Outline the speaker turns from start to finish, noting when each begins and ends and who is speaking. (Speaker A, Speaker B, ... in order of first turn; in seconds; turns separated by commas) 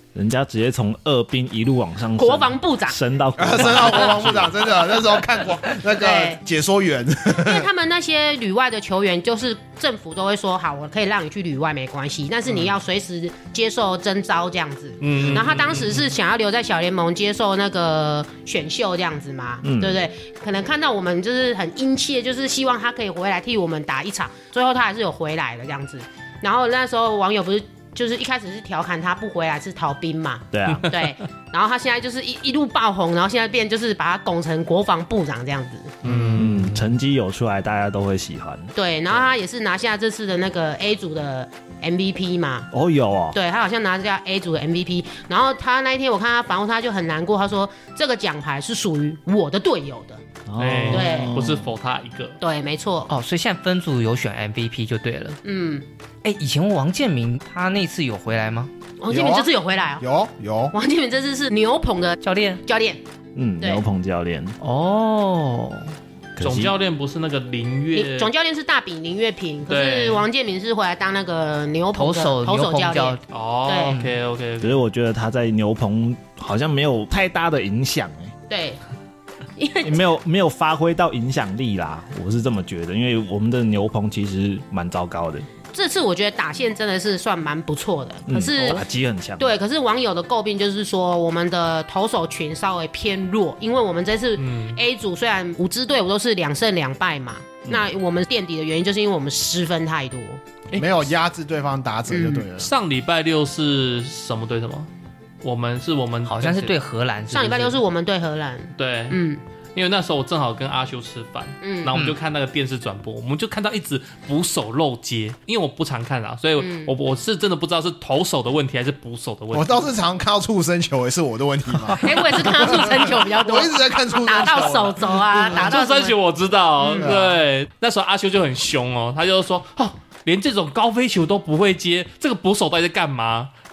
Speaker A: 0.1-4.6, Speaker B: 2.1-3.0, Speaker C: 3.4-7.7, Speaker B: 6.0-6.4, Speaker B: 7.3-35.9, Speaker D: 15.0-15.9, Speaker C: 15.2-15.4, Speaker A: 19.6-20.0, Speaker A: 30.5-30.9, Speaker D: 36.0-36.9, Speaker C: 36.0-36.5, Speaker A: 36.3-38.7, Speaker B: 38.7-42.7, Speaker A: 42.7-43.4, Speaker B: 43.3-50.2, Speaker A: 50.5-51.7, Speaker D: 50.6-52.4, Speaker B: 50.9-51.3, Speaker B: 52.4-53.1, Speaker E: 53.1-55.4, Speaker B: 55.4-55.8, Speaker E: 56.2-58.7, Speaker B: 59.0-60.0, Speaker C: 59.1-60.7, Speaker B: 60.7-63.0, Speaker E: 62.2-62.6, Speaker A: 63.3-64.6, Speaker E: 64.6-65.9, Speaker A: 66.4-66.7, Speaker D: 66.4-68.3, Speaker B: 67.9-74.0, Speaker D: 69.7-70.2, Speaker E: 71.9-73.2, Speaker D: 73.3-74.8, Speaker A: 74.6-78.3, Speaker B: 78.5-78.8, Speaker B: 79.5-80.1, Speaker A: 79.8-85.5, Speaker B: 85.7-88.8, Speaker A: 88.3-89.5, Speaker B: 89.4-100.4, Speaker D: 94.4-94.8, Speaker D: 100.7-101.1, Speaker C: 100.7-102.7, Speaker B: 102.1-102.5, Speaker D: 102.6-104.9, Speaker D: 105.4-106.7, Speaker E: 106.2-107.8, Speaker B: 107.3-109.4, Speaker D: 108.8-109.2, Speaker D: 109.7-119.9, Speaker B: 111.6-111.9, Speaker E: 111.9-112.2, Speaker B: 116.6-116.9, Speaker C: 119.5-125.6, Speaker B: 122.0-126.2, Speaker D: 125.4-133.5, Speaker B: 126.8-127.1, Speaker C: 127.0-127.4